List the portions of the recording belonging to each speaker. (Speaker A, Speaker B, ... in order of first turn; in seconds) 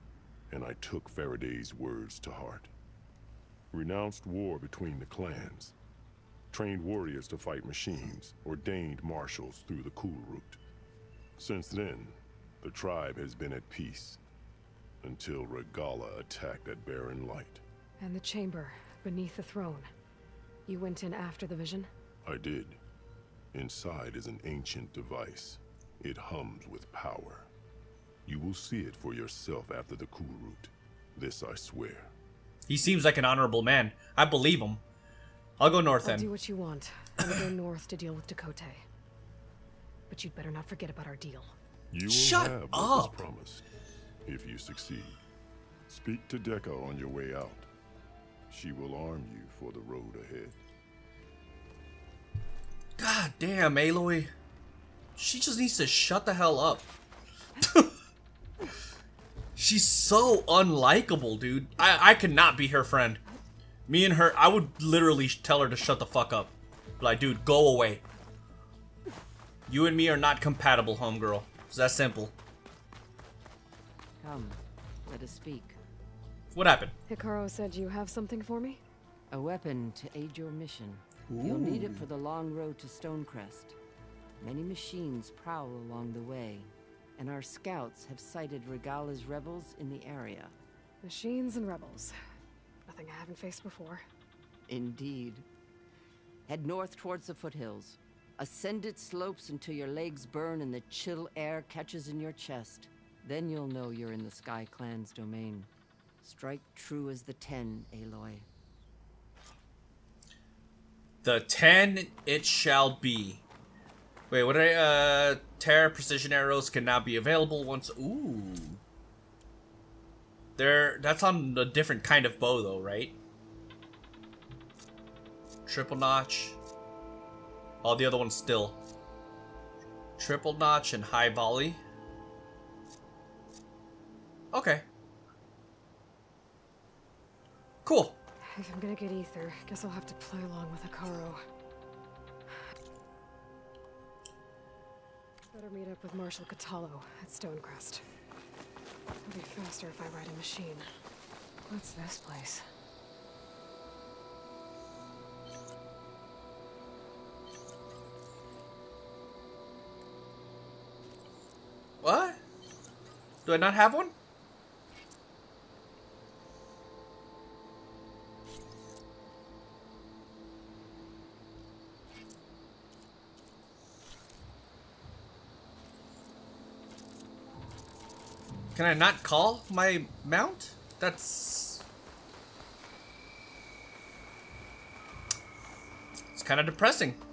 Speaker A: 0.5-2.7, 3.7-5.7, 6.5-10.6, 11.4-14.2, 15.0-17.6, 22.2-22.8, 23.5-27.5, 28.3-32.1, 41.9-43.7, 44.2-45.2, 45.9-47.7, 48.5-50.6
Speaker B: 18.0-19.9, 20.7-21.9, 36.0-38.9, 40.1-41.5, 77.1-78.8, 91.0-92.1, 92.9-94.0, 138.5-141.4, 145.5-148.0, 149.2-150.9, 151.7-152.6
Speaker C: 32.7-34.8, 35.6-36.3, 42.1-43.2, 53.0-54.3, 55.2-56.9, 57.6-57.9, 59.6-63.2, 63.9-68.0, 69.7-72.3, 76.5-77.0, 81.3-82.1, 111.2-113.4, 114.3-118.8, 120.6-123.2, 125.7-126.6, 127.8-128.8, 130.2-131.8, 134.5-134.8, 137.8-138.2, 162.0-162.4, 163.4-164.1, 178.8-181.8, 186.3-187.2
Speaker D: 74.2-75.8, 79.3-83.8, 84.4-90.5, 94.7-95.5, 96.5-105.7, 106.2-108.5